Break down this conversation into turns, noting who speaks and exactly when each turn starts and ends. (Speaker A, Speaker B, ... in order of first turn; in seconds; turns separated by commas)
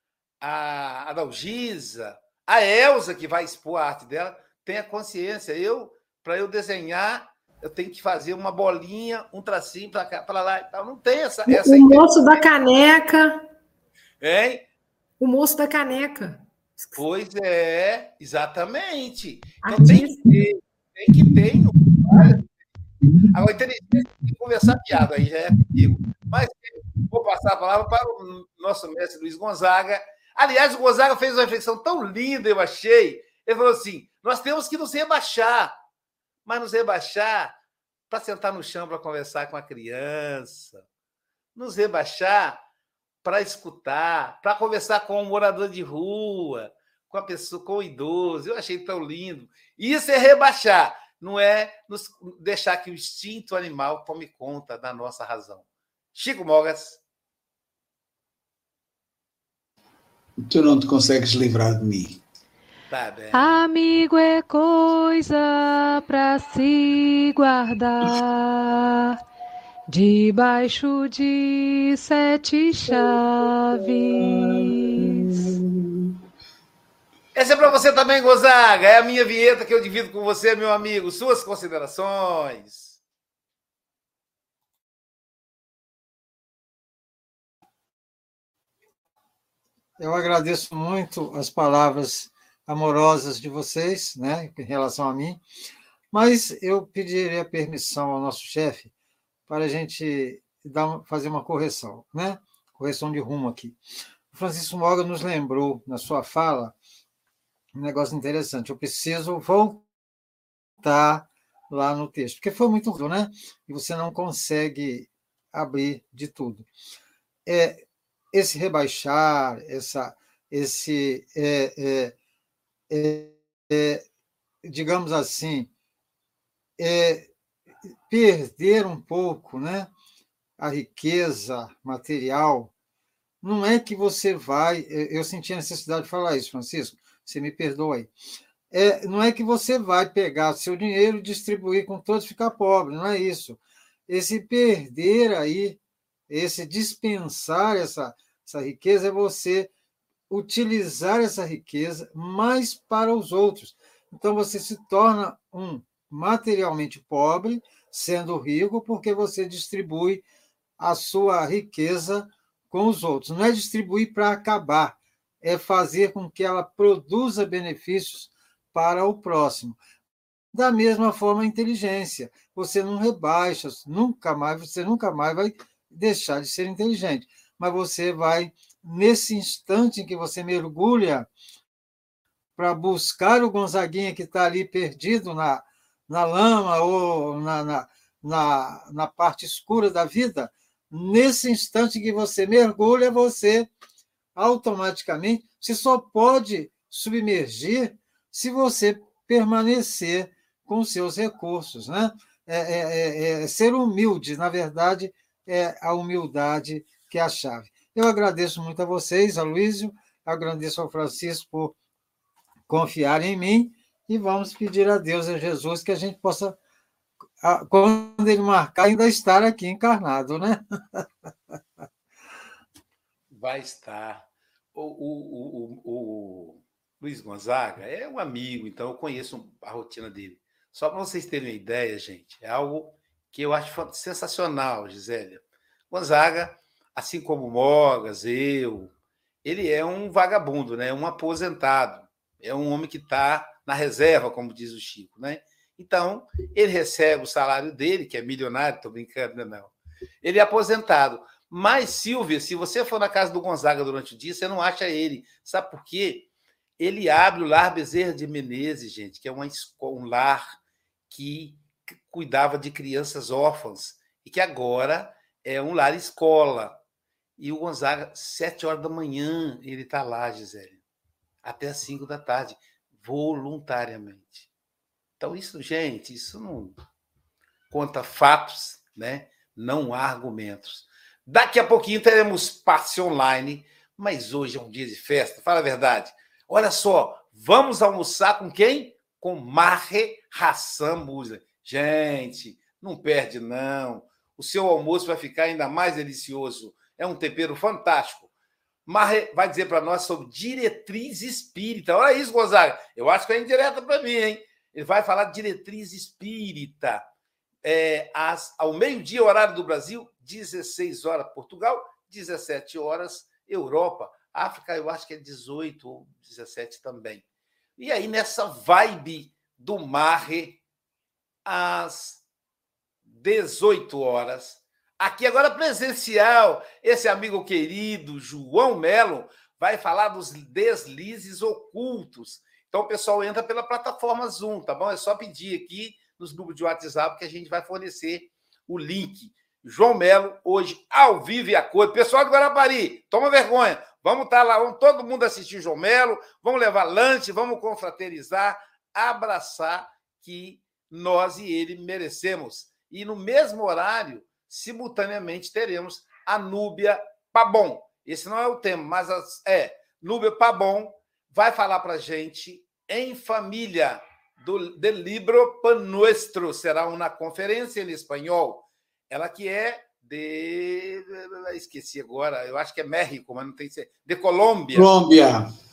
Speaker A: 0.4-12.5, Speaker B: 11.5-13.4, Speaker A: 14.2-14.7, Speaker B: 15.2-17.0, Speaker A: 16.9-22.4, Speaker B: 19.6-20.3, Speaker A: 23.3-35.7, Speaker A: 36.5-37.5, Speaker A: 38.1-40.8, Speaker A: 41.5-42.6, Speaker A: 43.2-57.0, Speaker C: 60.4-62.2, Speaker A: 62.9-63.6, Speaker D: 63.3-69.2, Speaker D: 69.9-75.5, Speaker C: 75.2-75.9, Speaker A: 77.3-83.0, Speaker E: 90.0-95.4, Speaker E: 96.1-98.9, Speaker E: 99.5-103.8, Speaker E: 104.3-106.7, Speaker E: 107.7-109.9, Speaker E: 110.8-116.7, Speaker E: 117.5-122.1, Speaker E: 122.9-124.0, Speaker E: 124.6-125.7, Speaker E: 126.8-127.3, Speaker E: 128.1-129.9, Speaker E: 130.6-132.7, Speaker E: 133.4-138.1, Speaker E: 138.7-149.7, Speaker E: 150.3-160.2, Speaker E: 160.8-169.8, Speaker E: 170.5-181.3, Speaker E: 182.6-193.7, Speaker E: 194.3-211.8, Speaker E: 212.7-216.6, Speaker E: 217.4-221.0, Speaker A: 223.3-238.9, Speaker A: 239.4-256.3, Speaker A: 256.8-260.6, Speaker A: 261.1-266.8, Speaker A: 267.4-270.8, Speaker A: 271.4-274.5, Speaker A: 275.2-276.8, Speaker A: 277.7-298.3, Speaker A: 298.9-307.1, Speaker A: 307.6-317.2, Speaker A: 317.8-320.6, Speaker A: 321.4-322.2, Speaker A: 323.1-374.9, Speaker C: 374.7-375.5